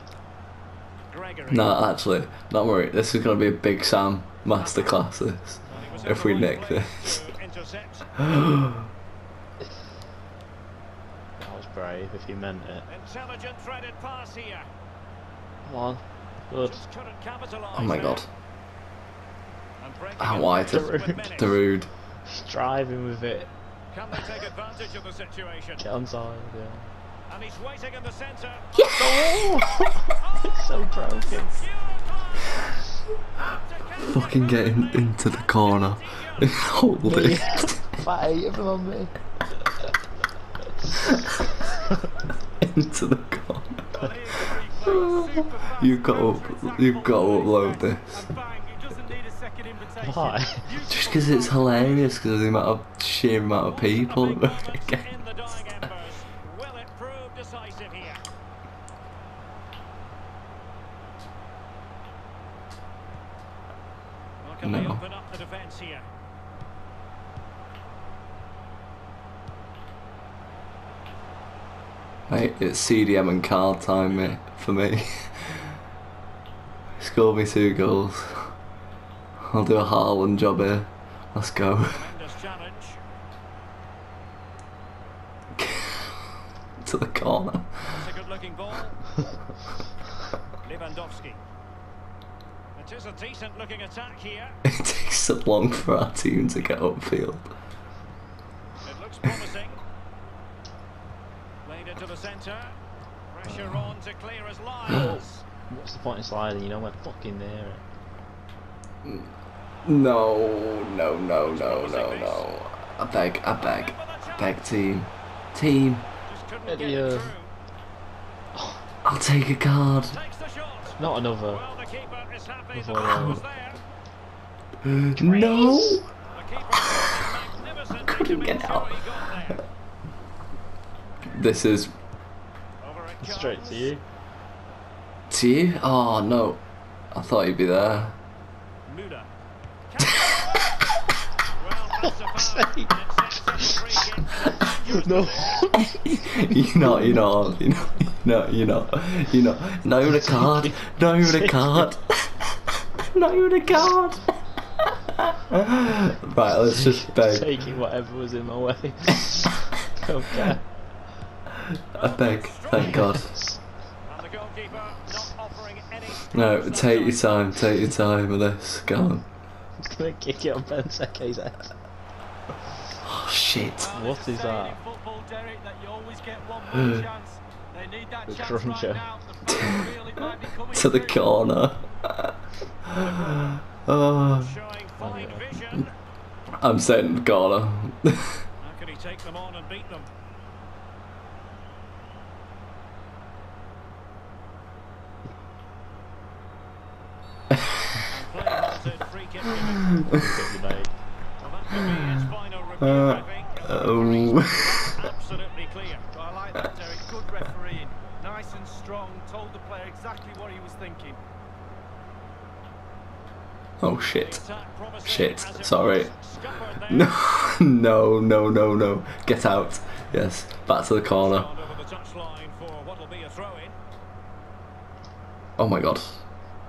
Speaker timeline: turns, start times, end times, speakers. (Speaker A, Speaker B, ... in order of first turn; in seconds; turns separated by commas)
Speaker A: 1.1-1.7, Speaker B: 1.5-7.2, Speaker C: 5.7-6.3, Speaker A: 5.7-8.1, Speaker B: 8.2-8.8, Speaker C: 11.4-12.9, Speaker A: 12.9-14.7, Speaker C: 15.7-16.9, Speaker A: 16.6-18.2, Speaker B: 17.7-18.3, Speaker A: 19.8-21.6, Speaker B: 20.2-21.9, Speaker C: 20.7-21.3, Speaker C: 22.3-23.5, Speaker A: 23.9-25.8, Speaker C: 25.8-26.9, Speaker A: 27.3-28.7, Speaker C: 28.9-31.6, Speaker A: 31.3-32.5, Speaker A: 33.6-36.5, Speaker B: 34.0-37.8, Speaker C: 37.0-39.1, Speaker C: 40.9-41.2, Speaker B: 42.6-44.0, Speaker D: 44.0-51.2, Speaker B: 44.9-48.3, Speaker C: 50.0-50.7, Speaker B: 50.9-55.1, Speaker A: 51.5-51.8, Speaker A: 53.7-58.2, Speaker A: 64.4-66.1, Speaker B: 64.6-65.0, Speaker B: 72.3-75.8, Speaker B: 77.0-78.5, Speaker B: 79.4-82.1, Speaker A: 81.9-83.0, Speaker B: 85.6-88.1, Speaker A: 88.0-89.0, Speaker A: 90.6-91.4, Speaker A: 92.8-94.6, Speaker B: 94.7-97.5, Speaker A: 98.8-99.8, Speaker A: 101.7-102.8, Speaker A: 103.3-105.4, Speaker C: 104.9-107.8, Speaker B: 109.0-116.1, Speaker A: 111.5-112.4, Speaker A: 113.8-114.1, Speaker A: 116.3-117.5, Speaker C: 116.7-117.4, Speaker C: 118.5-118.8, Speaker B: 119.0-120.2, Speaker A: 120.2-121.0, Speaker C: 121.0-121.7, Speaker A: 121.5-123.8, Speaker C: 122.7-123.4, Speaker B: 124.9-126.1, Speaker A: 125.2-129.6, Speaker B: 128.0-129.5, Speaker B: 131.3-131.9, Speaker A: 132.8-133.9, Speaker C: 133.2-134.0, Speaker B: 135.3-138.2, Speaker A: 138.9-139.3, Speaker A: 139.9-140.7, Speaker A: 141.6-145.6, Speaker C: 142.0-143.0, Speaker C: 143.6-143.9, Speaker C: 144.5-147.1, Speaker B: 146.1-157.5, Speaker C: 150.2-151.8, Speaker C: 157.0-160.7, Speaker B: 161.9-163.3, Speaker A: 162.0-163.0, Speaker C: 162.7-163.7, Speaker A: 164.1-167.2, Speaker B: 166.3-169.2, Speaker C: 169.8-171.7, Speaker B: 173.0-173.9, Speaker D: 173.8-181.2, Speaker C: 173.9-174.8, Speaker C: 178.3-179.1, Speaker B: 179.5-184.6, Speaker A: 183.0-183.6, Speaker A: 184.4-185.9, Speaker C: 185.0-185.6, Speaker B: 186.6-188.4, Speaker A: 188.6-190.1, Speaker A: 198.1-199.9, Speaker C: 200.0-201.0, Speaker A: 201.4-206.0, Speaker B: 201.7-204.8, Speaker D: 206.1-211.2, Speaker B: 213.8-214.4, Speaker A: 214.2-217.0, Speaker B: 215.0-221.5, Speaker A: 221.2-223.8, Speaker B: 225.6-226.2